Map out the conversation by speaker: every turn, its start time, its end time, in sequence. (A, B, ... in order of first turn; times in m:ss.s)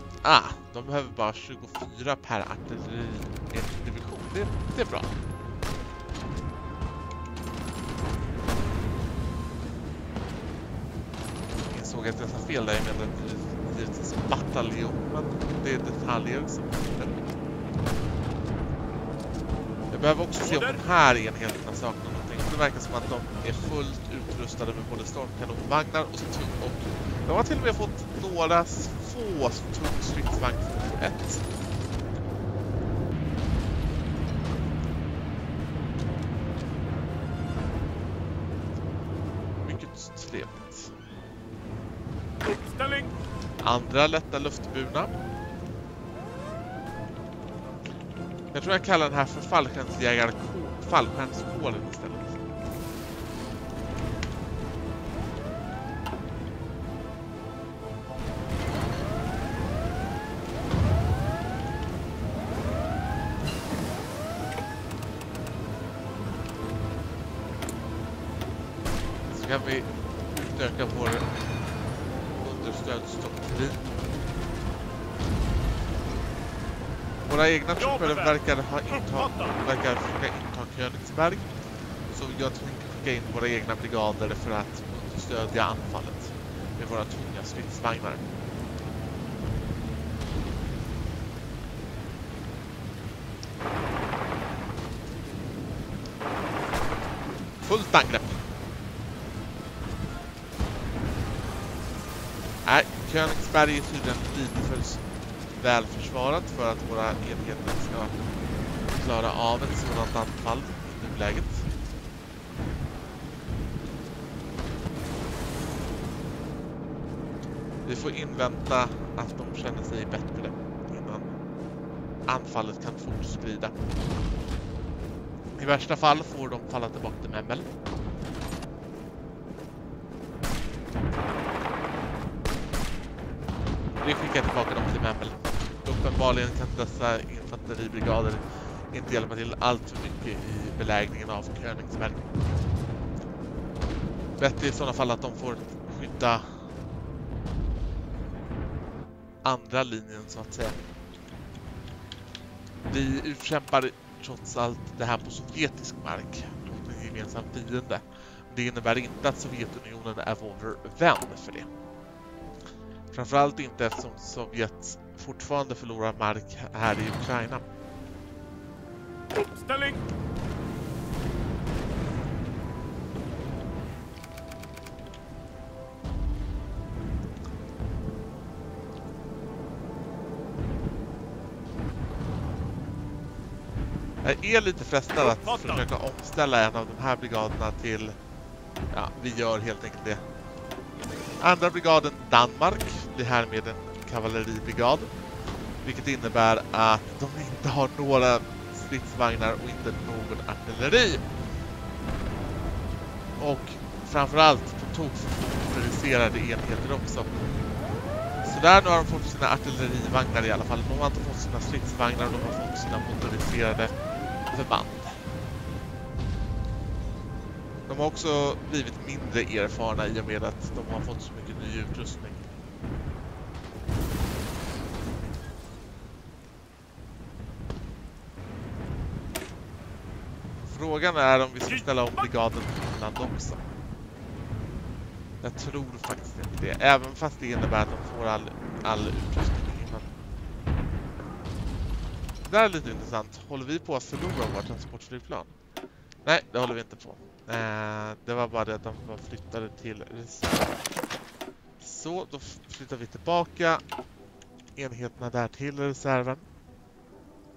0:00.2-0:05.2 A
0:11.7-0:17.3 A
0:19.9-0:31.6 A
0:20.4-0:20.8 B
0:39.6-0:40.9 A
0:42.4-0:43.1 B
0:43.6-0:45.2 A
0:48.5-0:52.4 A
1:09.3-1:11.5 A
1:12.4-1:13.9 A
1:17.2-1:21.5 A
1:17.8-1:18.4 B
1:18.9-1:19.6 B
1:22.1-1:28.3 A
1:37.6-1:38.4 A
1:42.6-1:45.0 A
1:45.6-1:48.1 A
1:48.9-1:51.7 A
1:57.8-2:01.3 A
2:02.3-2:03.8 A
2:05.6-2:07.7 A
2:14.0-2:22.3 A
2:24.4-2:26.4 A
2:29.4-2:30.8 A
2:32.9-2:41.7 A
2:43.1-2:47.6 A
2:49.3-2:50.0 B
3:04.2-3:08.2 A
3:05.2-3:05.8 B
3:08.9-3:10.2 A
3:11.4-3:15.1 A
3:15.8-3:21.2 A
3:23.4-3:27.3 A
3:28.4-3:33.9 A
3:34.5-3:35.2 A
3:37.9-3:42.4 A
3:50.7-3:53.6 A
3:55.4-4:00.1 A
4:02.4-4:05.5 A
4:06.2-4:10.9 A
4:11.8-4:13.8 A
4:14.8-4:16.4 A